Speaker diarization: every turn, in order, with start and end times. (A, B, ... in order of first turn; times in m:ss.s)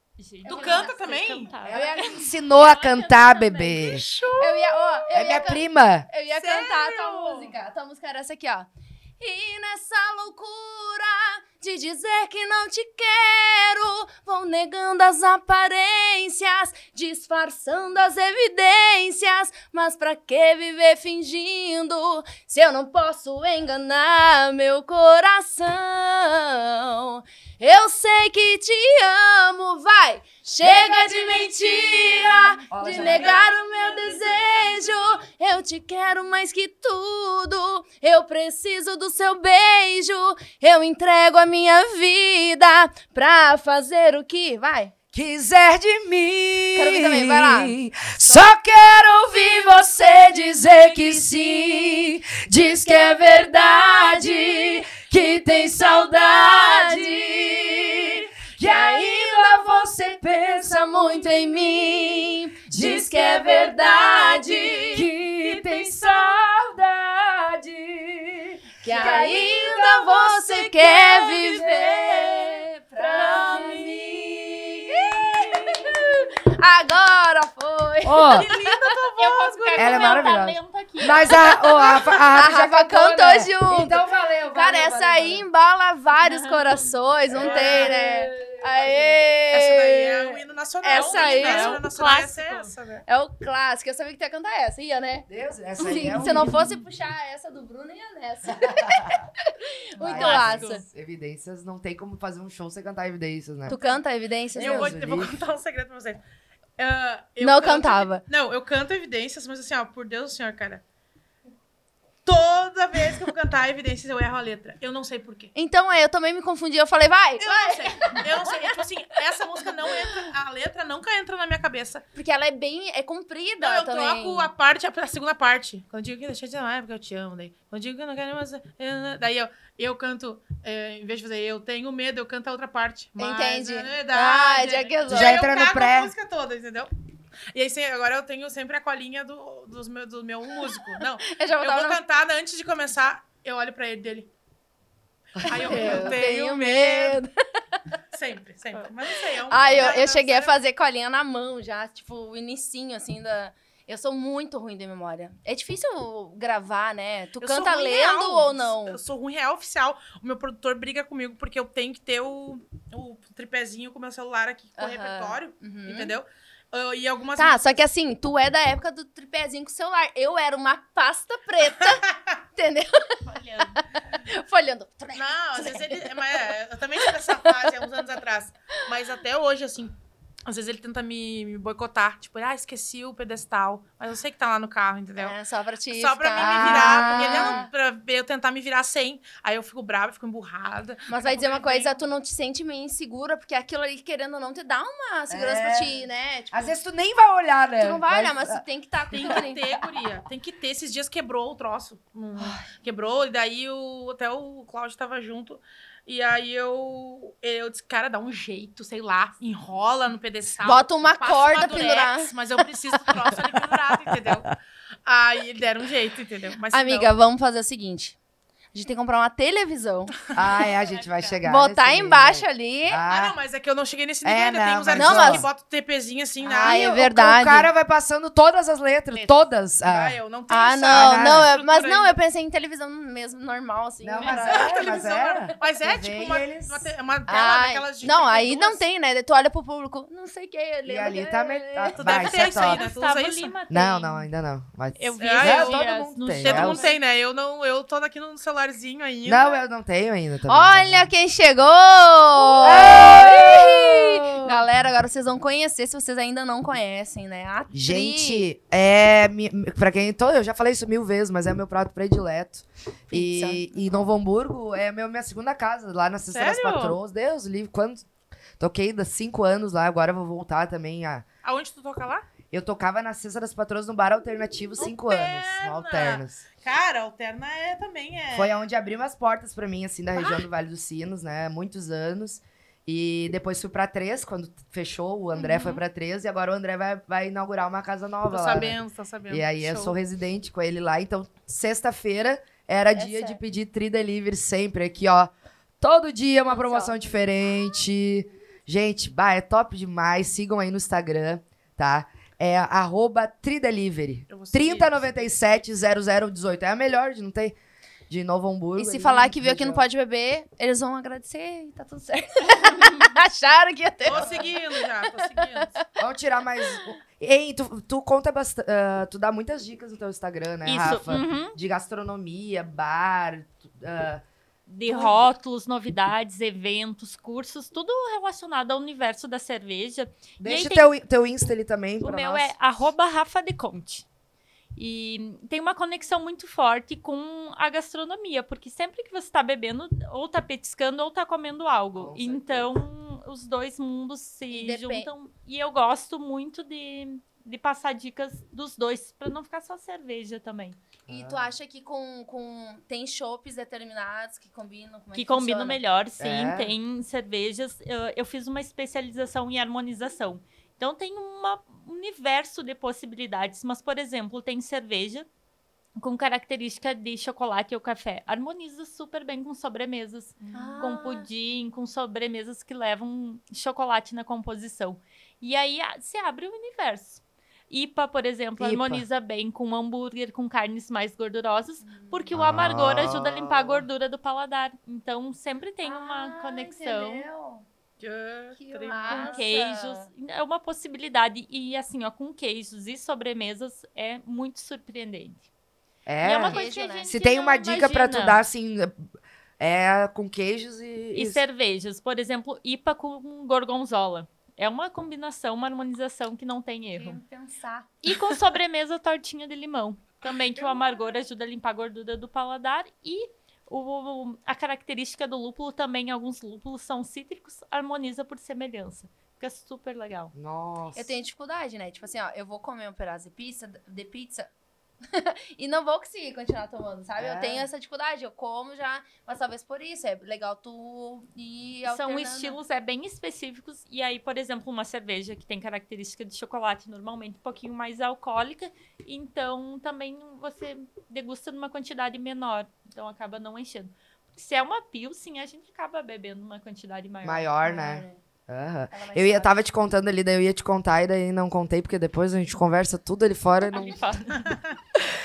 0:00.2-0:03.7 A
0:00.4-0:01.5 B
0:00.4-0:02.3 C
0:01.6-0:04.1 D
0:03.8-0:05.1 B
0:04.4-0:44.9 C
0:05.1-0:06.1 D
0:06.3-0:07.5 B
0:30.6-0:35.2 B
0:32.7-0:33.4 D
0:45.1-1:16.2 D
0:46.7-0:48.5 C
0:50.2-0:52.0 C
0:52.6-1:05.1 C
1:05.3-1:06.2 B
1:08.8-1:18.8 C
1:08.9-1:09.4 B
1:11.0-1:11.4 B
1:18.0-1:18.4 D
1:18.3-1:20.3 B
1:19.2-1:21.9 A
1:19.7-1:25.4 D
1:21.4-1:31.8 C
1:26.2-1:26.9 A
1:27.3-1:29.2 D
1:27.4-1:28.0 B
1:29.5-1:33.0 B
1:30.9-1:32.7 A
1:33.1-1:35.3 C
1:35.3-1:36.7 D
1:35.8-1:39.2 C
1:36.1-1:36.7 A
1:38.5-1:39.3 D
1:39.9-1:40.8 C
1:40.0-1:40.8 A
1:40.0-1:43.8 D
1:43.7-1:45.0 C
1:43.7-1:44.0 B
1:44.5-1:45.4 D
1:44.5-1:46.2 B
1:46.8-1:50.8 B
1:47.4-1:48.2 C
1:52.2-1:55.5 B
1:55.5-1:58.7 C
1:57.4-2:02.0 B
1:59.9-2:00.2 C
2:02.1-2:04.5 C
2:03.6-2:16.9 B
2:13.2-2:15.4 C
2:15.1-2:16.1 D
2:17.5-2:24.3 B
2:20.7-2:22.0 C
2:25.4-2:27.2 B
2:25.4-2:26.2 D
2:25.4-2:27.8 C
2:28.1-2:30.5 B
2:29.5-2:39.0 C
2:37.4-2:47.8 B
2:44.8-2:46.2 C
2:47.4-2:52.0 C
2:51.8-2:52.2 B
2:52.5-2:56.1 C
2:53.2-2:53.8 A
2:55.1-2:59.9 B
2:57.1-2:57.7 C
3:00.4-3:05.4 B
3:05.2-3:07.7 C
3:05.9-3:12.0 B
3:06.4-3:07.6 D
3:11.1-3:16.8 C
3:15.3-3:18.6 D
3:17.8-3:19.7 C
3:19.1-3:34.5 B
3:22.4-3:22.7 C
3:30.6-3:32.3 C
3:35.0-3:37.1 B
3:36.7-3:38.2 C
3:38.7-3:40.1 C
3:40.3-3:43.4 D
3:40.7-3:41.4 A
3:41.4-3:43.0 C
3:43.1-3:46.8 B
3:44.2-3:45.5 D
3:44.9-3:45.5 C
3:46.4-3:47.7 C
3:46.6-3:50.2 D
3:49.1-3:52.2 B
3:50.5-3:54.8 C
3:50.9-3:51.5 D
3:54.0-3:56.9 D
3:54.2-3:58.8 B
3:57.3-4:02.4 C
4:00.8-4:02.8 D
4:01.9-4:03.5 B
4:02.5-4:04.3 A
4:03.7-4:06.8 D
4:05.0-4:07.0 A
4:05.2-4:05.8 B
4:06.4-4:09.6 B
4:09.2-4:11.0 D
4:10.5-4:18.5 C
4:12.6-4:14.7 D
4:17.7-4:28.0 D
4:23.1-4:24.0 C
4:26.3-4:27.0 B
4:28.6-4:31.2 D
4:31.4-4:32.3 B
4:32.5-4:36.4 D
4:34.8-4:38.6 B
4:38.3-4:48.8 D
4:45.4-4:45.8 C
4:48.3-4:49.9 B
4:49.3-5:07.6 D
4:52.9-4:53.4 C
4:56.5-4:57.1 C
5:04.3-5:05.4 B
5:08.1-5:09.8 D
5:08.8-5:15.8 C
5:14.0-5:15.7 B
5:16.0-5:24.2 D
5:20.6-5:21.6 A
5:24.7-5:30.9 A
5:30.4-5:32.5 D
5:32.0-5:34.0 A
5:34.8-5:50.8 A
5:42.0-5:42.7 D
5:44.5-5:45.1 C
5:51.1-5:51.5 D
5:51.1-5:55.8 C
5:55.1-6:05.2 A
5:56.2-5:56.7 D
6:06.0-6:27.2 A
6:10.4-6:10.8 B
6:10.5-6:11.3 C
6:18.6-6:19.0 D
6:21.8-6:22.3 C
6:22.3-6:23.8 D
6:25.8-6:27.6 C
6:28.0-6:29.4 B
6:28.6-6:30.1 C
6:29.0-6:35.4 A
6:36.0-6:39.1 D
6:36.2-6:38.4 A
6:36.4-6:37.1 C
6:39.6-6:41.4 D
6:41.1-6:47.2 A
6:46.9-6:47.9 C
6:48.0-7:00.3 A
6:50.5-6:51.2 B
7:00.3-7:01.2 D
7:00.9-7:04.5 C
7:05.1-7:12.6 C
7:07.2-7:07.7 D
7:11.8-7:27.5 A
7:27.2-7:34.0 D
7:27.6-7:28.2 C
7:28.9-7:29.5 C
7:33.6-7:34.6 A